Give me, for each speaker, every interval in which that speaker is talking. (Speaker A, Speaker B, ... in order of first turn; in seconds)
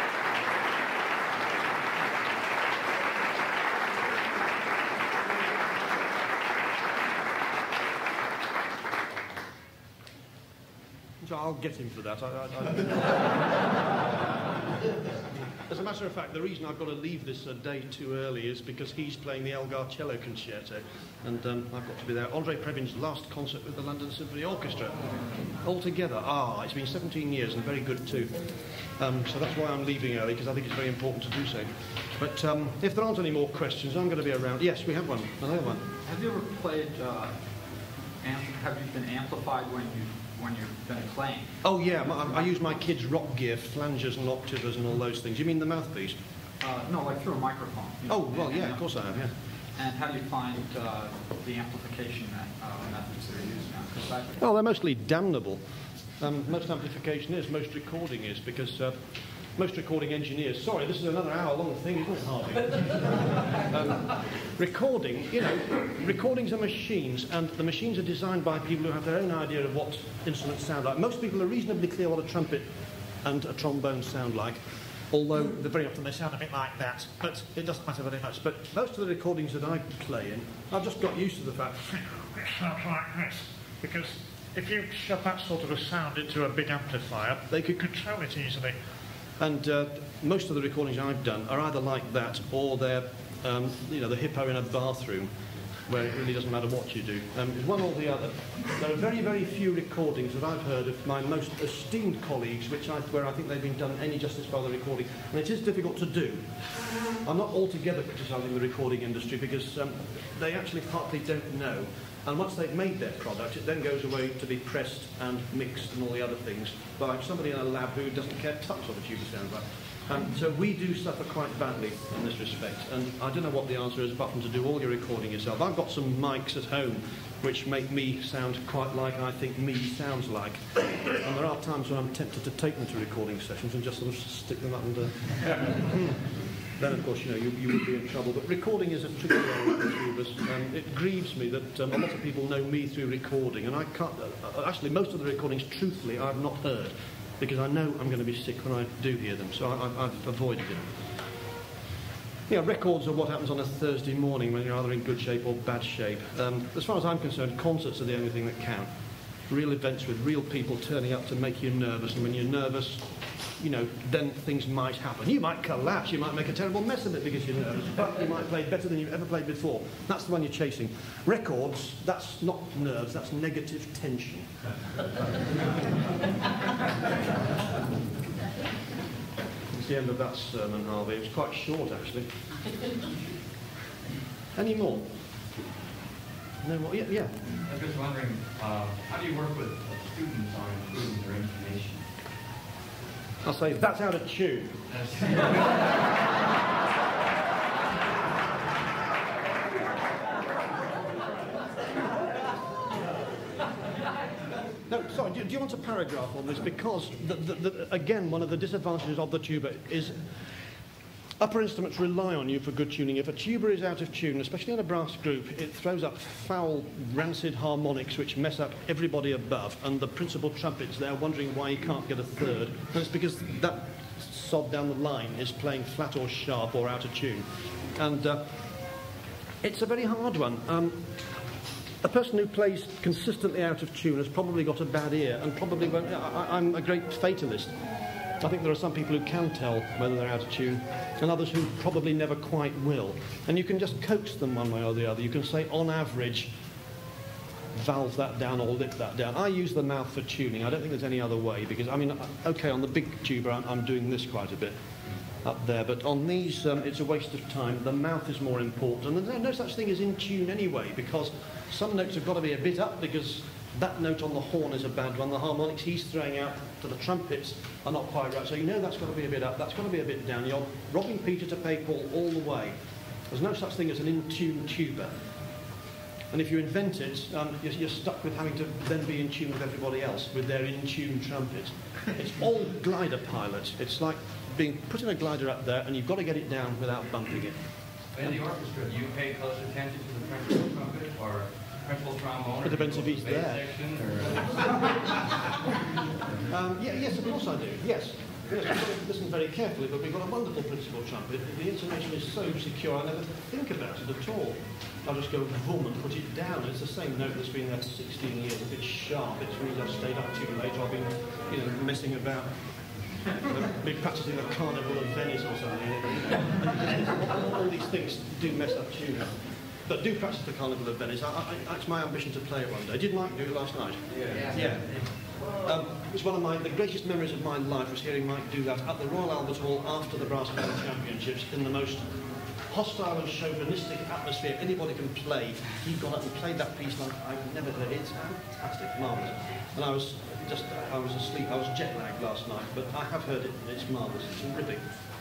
Speaker A: 11.2-13.3, 15.7-35.8, 41.6-46.1, 48.1-49.3, 54.4-55.6, 56.2-59.0, 59.5-72.7, 73.2-88.7, 89.4-95.3, 95.9-106.5, 107.1-150.9, 152.5-158.9, 159.5-163.0, 163.6-174.5, 179.7-182.3, 184.5-185.0, 186.6-187.4, 193.4-194.8, 204.9-210.3, 211.4-228.5, 229.6-231.0, 232.0-246.5, 247.7-254.8, 255.3-272.7, 273.3-275.1, 276.3-287.6, 292.6-293.7, 296.5-312.6, 313.3-332.1, 332.7-344.8
Speaker B: 36.0-37.4, 38.2-41.5, 46.6-48.9, 49.7-54.4
Speaker C: 187.7-192.0, 195.0-195.4, 288.1-294.5, 324.1-324.5